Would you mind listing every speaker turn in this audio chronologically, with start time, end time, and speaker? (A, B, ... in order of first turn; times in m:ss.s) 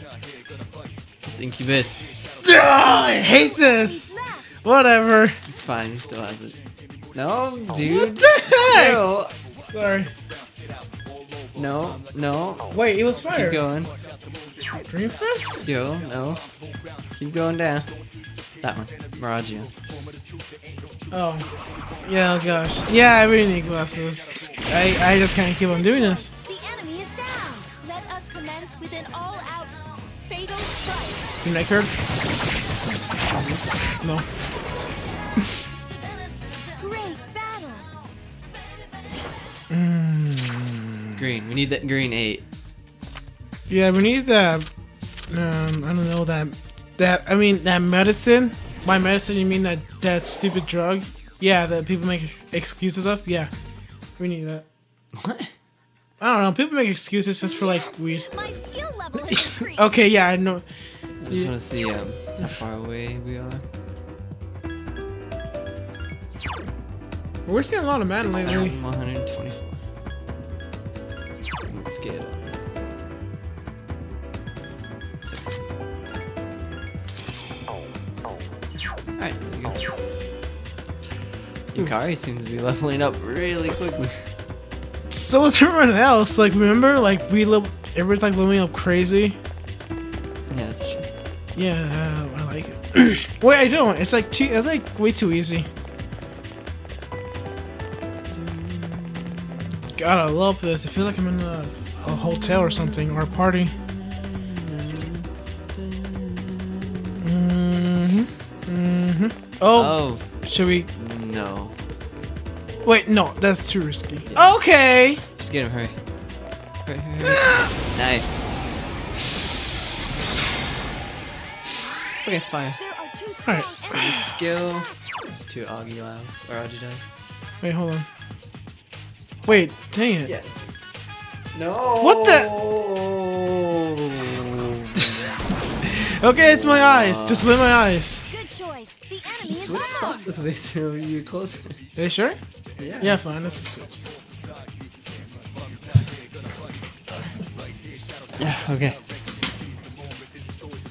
0:01.2-0:02.1 A
0:02.4-0:05.4 B
0:03.2-0:04.5 C
0:05.4-0:06.6 A
0:07.1-0:09.3 A
0:07.8-0:09.0 B
0:09.7-0:10.1 B
0:11.5-0:12.7 A
0:12.7-0:13.6 B
0:13.3-0:13.9 A
0:14.8-0:15.6 B
0:15.6-0:16.5 A
0:17.1-0:17.9 A
0:18.6-0:19.7 A
0:21.1-0:21.5 B
0:22.0-0:26.3 B
0:25.7-0:31.3 C
0:31.4-0:32.0 B
0:33.2-0:33.6 A
0:36.8-0:37.9 C
0:39.7-0:41.2 B
0:41.2-0:42.4 A
0:43.7-0:44.7 B
0:45.3-0:53.5 B
0:54.2-0:54.6 B
0:55.2-0:55.5 A
0:56.2-0:58.2 B
0:57.4-0:59.9 C
0:58.4-0:58.7 A
0:59.2-1:00.6 B
1:01.2-1:03.6 A
1:07.4-1:08.8 B
1:08.0-1:09.8 A
1:11.7-1:12.6 A
1:15.2-1:15.8 A
1:19.2-1:19.8 A
1:21.7-1:24.3 A
1:25.1-1:29.4 B
1:30.5-1:31.1 A
1:31.5-1:35.7 B
1:38.3-1:39.5 A
1:40.0-1:43.7 B
1:42.0-1:47.2 A
1:47.2-1:50.9 B
1:49.7-1:50.3 A
1:50.9-1:51.8 A
1:52.8-1:55.2 B
1:54.2-1:54.6 A
1:55.3-1:56.0 A
1:56.8-1:58.7 A
2:02.2-2:02.8 A
2:02.8-2:04.3 C
2:03.4-2:04.3 B
2:03.9-2:07.1 A
2:07.6-2:08.1 B
2:09.4-2:10.3 B
2:10.2-2:10.7 A
2:11.5-2:15.4 A
2:12.0-2:12.5 B
2:15.8-2:18.2 B
2:16.2-2:17.5 A
2:18.3-2:20.3 C
2:19.4-2:21.8 A
2:22.0-2:22.4 B
2:22.8-2:23.2 A
2:23.0-2:24.0 B
2:28.4-2:29.0 A